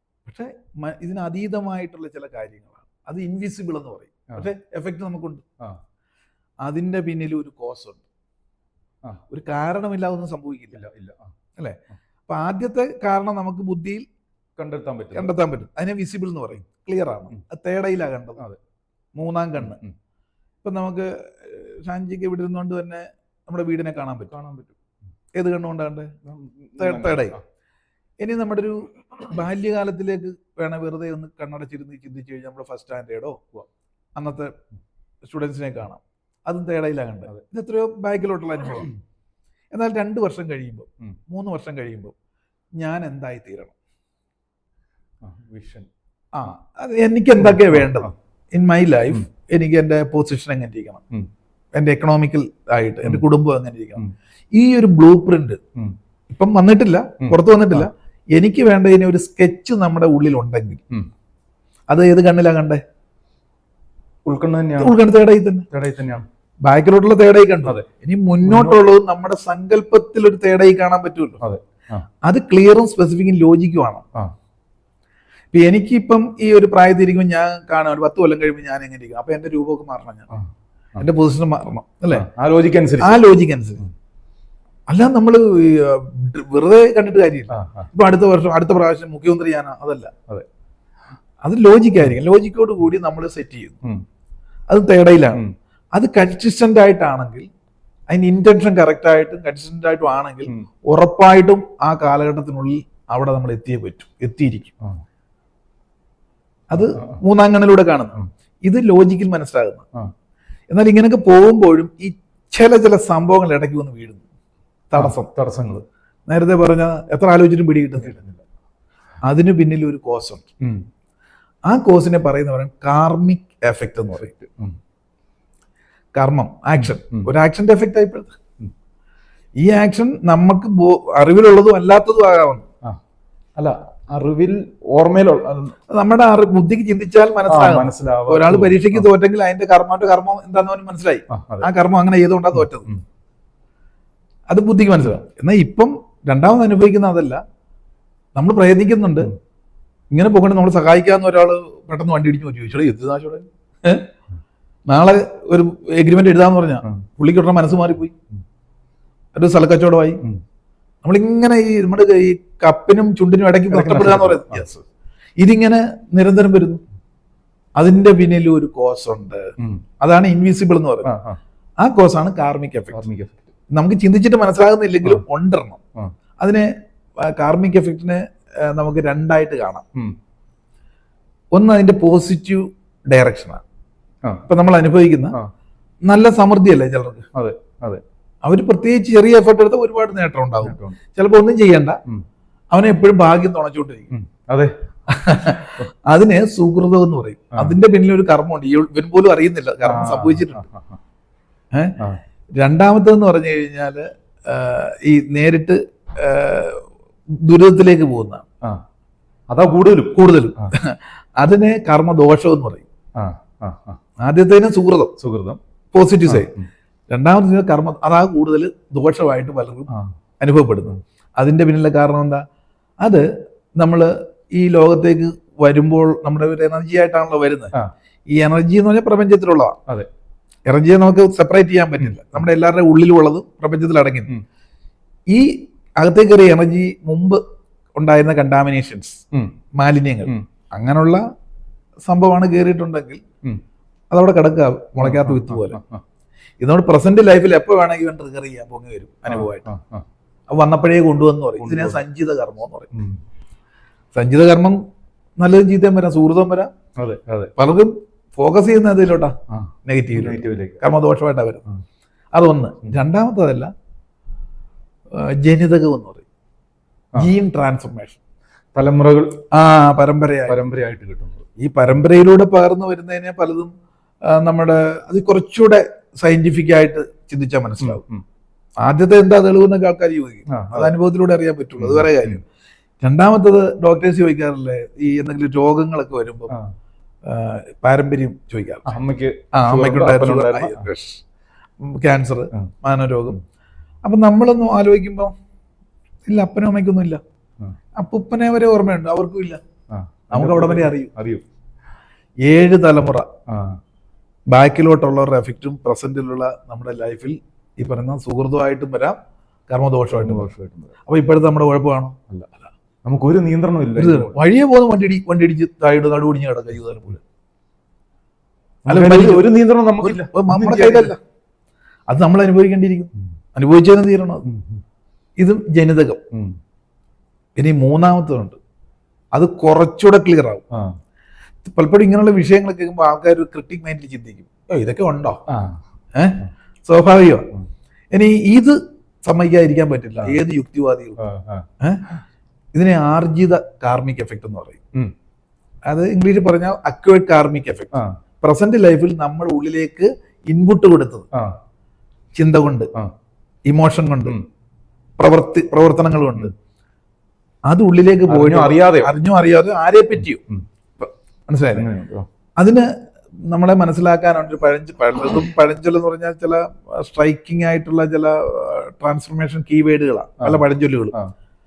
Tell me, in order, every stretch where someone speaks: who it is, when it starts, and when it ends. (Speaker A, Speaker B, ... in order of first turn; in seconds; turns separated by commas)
Speaker A: 0.2-5.5, Speaker A: 6.6-8.0, Speaker A: 9.3-10.8, Speaker B: 10.8-11.3, Speaker A: 11.6-14.1, Speaker B: 14.6-15.3, Speaker A: 15.1-18.4, Speaker A: 19.2-19.8, Speaker B: 19.6-19.9, Speaker A: 20.6-24.4, Speaker B: 24.3-24.8, Speaker A: 25.3-26.1, Speaker B: 26.2-27.4, Speaker A: 26.8-27.4, Speaker A: 28.2-33.4, Speaker A: 34.2-34.5, Speaker A: 35.2-38.9, Speaker A: 39.7-42.1, Speaker A: 42.8-43.7, Speaker B: 45.2-45.9, Speaker A: 46.3-51.0, Speaker B: 47.4-48.1, Speaker A: 51.8-55.6, Speaker A: 56.3-60.8, Speaker B: 57.2-57.9, Speaker A: 61.9-62.8, Speaker B: 64.2-65.0, Speaker A: 64.8-65.7, Speaker B: 65.7-66.3, Speaker A: 66.6-71.4, Speaker B: 68.4-68.8, Speaker B: 71.4-72.1, Speaker A: 72.2-74.0, Speaker A: 75.5-80.3, Speaker A: 81.0-82.3, Speaker B: 82.1-83.2, Speaker A: 83.0-83.8, Speaker A: 84.9-90.1, Speaker B: 87.5-87.9, Speaker A: 91.4-93.8, Speaker A: 94.7-95.4, Speaker A: 95.9-97.5, Speaker A: 98.1-104.7, Speaker A: 106.7-109.8, Speaker B: 106.8-107.1, Speaker A: 110.7-114.2, Speaker A: 114.9-115.3, Speaker B: 115.0-115.8, Speaker A: 116.3-118.2, Speaker B: 118.0-118.4, Speaker A: 119.2-120.5, Speaker B: 120.6-120.9, Speaker A: 121.7-124.3, Speaker B: 124.2-124.8, Speaker A: 126.2-128.3, Speaker B: 126.8-127.3, Speaker A: 129.6-132.7, Speaker B: 133.6-135.8, Speaker A: 135.9-142.9, Speaker B: 137.5-139.1, Speaker B: 141.3-141.7, Speaker A: 144.5-147.4, Speaker A: 148.3-149.3, Speaker A: 150.1-154.1, Speaker A: 154.9-158.1, Speaker A: 159.4-160.2, Speaker A: 161.0-164.8, Speaker B: 163.7-164.7, Speaker A: 165.4-166.8, Speaker A: 167.8-171.1, Speaker B: 171.1-171.4, Speaker A: 171.8-173.0, Speaker B: 172.9-173.4, Speaker A: 173.7-175.8, Speaker A: 176.4-176.7, Speaker A: 177.2-179.8, Speaker A: 181.5-183.6, Speaker A: 184.5-185.4, Speaker A: 186.1-187.3, Speaker B: 187.3-188.0, Speaker A: 188.4-192.0, Speaker B: 190.6-191.0, Speaker A: 192.7-194.1, Speaker B: 194.1-194.7, Speaker A: 195.1-200.6, Speaker B: 199.8-201.0, Speaker A: 202.6-206.9, Speaker A: 207.4-208.4, Speaker B: 209.5-210.7, Speaker A: 210.1-212.8, Speaker B: 213.2-214.0, Speaker A: 214.2-215.2, Speaker B: 215.2-215.6, Speaker A: 215.9-216.5, Speaker B: 216.3-216.7, Speaker A: 217.1-222.4, Speaker A: 223.0-227.7, Speaker A: 228.3-229.8, Speaker A: 230.7-234.3, Speaker B: 232.0-232.4, Speaker A: 235.3-237.4, Speaker A: 238.0-239.2, Speaker A: 239.8-241.2, Speaker A: 242.1-243.2, Speaker A: 244.1-245.8, Speaker B: 245.0-246.0, Speaker A: 246.6-249.7, Speaker B: 249.3-250.1, Speaker A: 250.5-252.9, Speaker B: 251.6-252.0, Speaker A: 254.1-254.8, Speaker A: 255.4-256.7, Speaker B: 257.0-257.5, Speaker A: 257.6-261.6, Speaker B: 259.5-260.8, Speaker A: 262.3-263.7, Speaker A: 265.1-266.2, Speaker A: 267.2-268.2, Speaker B: 268.7-269.4, Speaker A: 269.5-270.6, Speaker B: 270.5-271.5, Speaker A: 271.6-273.7, Speaker A: 274.2-278.0, Speaker B: 277.8-278.2, Speaker A: 278.8-282.4, Speaker B: 280.5-280.9, Speaker B: 281.8-282.4, Speaker A: 283.0-286.5, Speaker A: 287.3-288.9, Speaker B: 288.9-290.9, Speaker A: 289.5-291.2, Speaker A: 291.8-293.4, Speaker A: 294.0-295.3, Speaker A: 296.3-297.2, Speaker A: 298.0-299.6, Speaker B: 299.9-301.4, Speaker A: 300.3-301.1, Speaker A: 302.4-303.3, Speaker B: 303.5-303.8, Speaker A: 304.5-309.2, Speaker A: 309.7-310.5, Speaker B: 310.2-310.9, Speaker A: 311.1-312.2, Speaker B: 313.1-314.4, Speaker A: 314.0-317.2, Speaker B: 318.9-321.1, Speaker A: 318.9-319.5, Speaker A: 320.0-321.2, Speaker A: 322.1-324.4, Speaker B: 324.4-324.8, Speaker A: 325.4-326.2, Speaker B: 326.3-326.6, Speaker A: 327.6-328.6, Speaker A: 329.3-330.6, Speaker B: 330.7-331.0, Speaker A: 331.6-335.4, Speaker B: 335.5-335.8, Speaker A: 336.1-337.5, Speaker A: 338.1-341.2, Speaker B: 341.2-341.7, Speaker A: 342.7-344.8, Speaker A: 345.9-351.3, Speaker A: 352.4-352.9, Speaker A: 353.7-354.4, Speaker A: 355.2-356.5, Speaker A: 357.7-360.4, Speaker B: 358.3-359.1, Speaker A: 361.0-361.9, Speaker B: 361.8-362.3, Speaker A: 362.6-362.9, Speaker A: 363.5-371.1, Speaker B: 370.4-371.3